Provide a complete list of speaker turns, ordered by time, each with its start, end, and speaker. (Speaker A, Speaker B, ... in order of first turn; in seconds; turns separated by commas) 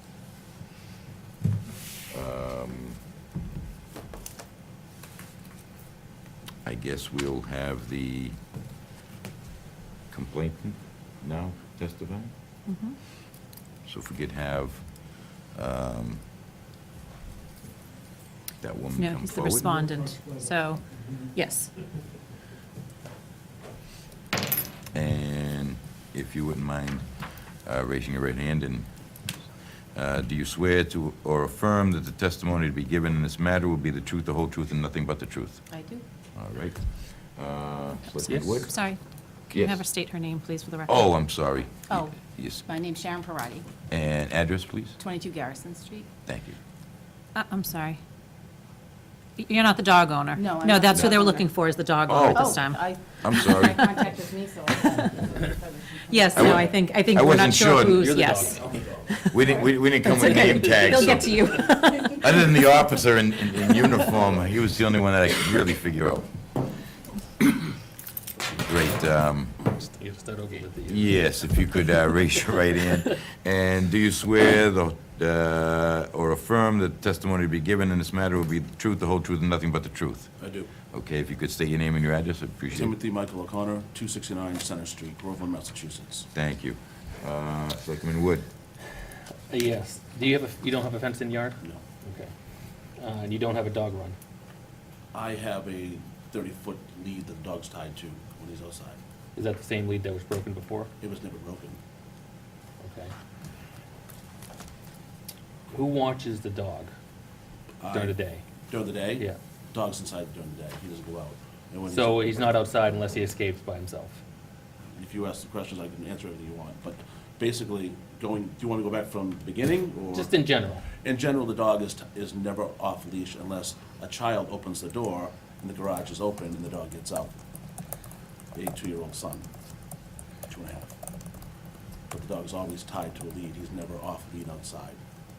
Speaker A: 2.1-3.0, Speaker A: 6.6-8.4, Speaker A: 10.1-12.3, Speaker B: 12.7-13.0, Speaker A: 13.8-16.2, Speaker A: 18.6-19.7, Speaker B: 18.9-21.7, Speaker A: 24.9-38.9, Speaker C: 35.7-36.0, Speaker D: 38.2-38.7, Speaker B: 38.5-41.1, Speaker A: 39.5-39.9, Speaker A: 40.9-42.7, Speaker C: 41.9-43.7, Speaker A: 43.9-45.0, Speaker C: 45.0-46.1, Speaker A: 46.3-46.6, Speaker B: 47.4-48.0, Speaker B: 49.4-54.0, Speaker C: 50.4-51.5, Speaker A: 50.9-51.2, Speaker A: 52.1-54.0, Speaker C: 52.3-56.8, Speaker B: 54.8-55.2, Speaker B: 56.1-62.2, Speaker A: 56.4-58.1, Speaker D: 57.8-58.9, Speaker A: 59.3-61.3, Speaker A: 62.1-66.3, Speaker A: 68.6-69.6, Speaker D: 69.7-72.0, Speaker A: 70.9-80.4, Speaker E: 80.4-80.7, Speaker A: 80.9-82.9, Speaker E: 82.7-86.3, Speaker A: 86.3-88.5, Speaker D: 89.5-92.3, Speaker D: 93.0-94.2, Speaker E: 95.1-99.0, Speaker D: 99.4-100.9, Speaker E: 101.0-101.8, Speaker D: 102.8-103.1, Speaker D: 105.7-106.9, Speaker E: 107.8-108.2, Speaker D: 107.9-108.4, Speaker E: 108.7-112.5, Speaker D: 111.9-114.2, Speaker E: 114.9-120.3, Speaker D: 120.1-120.9, Speaker E: 120.9-127.4, Speaker E: 128.5-129.5, Speaker E: 130.5-130.9, Speaker E: 132.1-135.0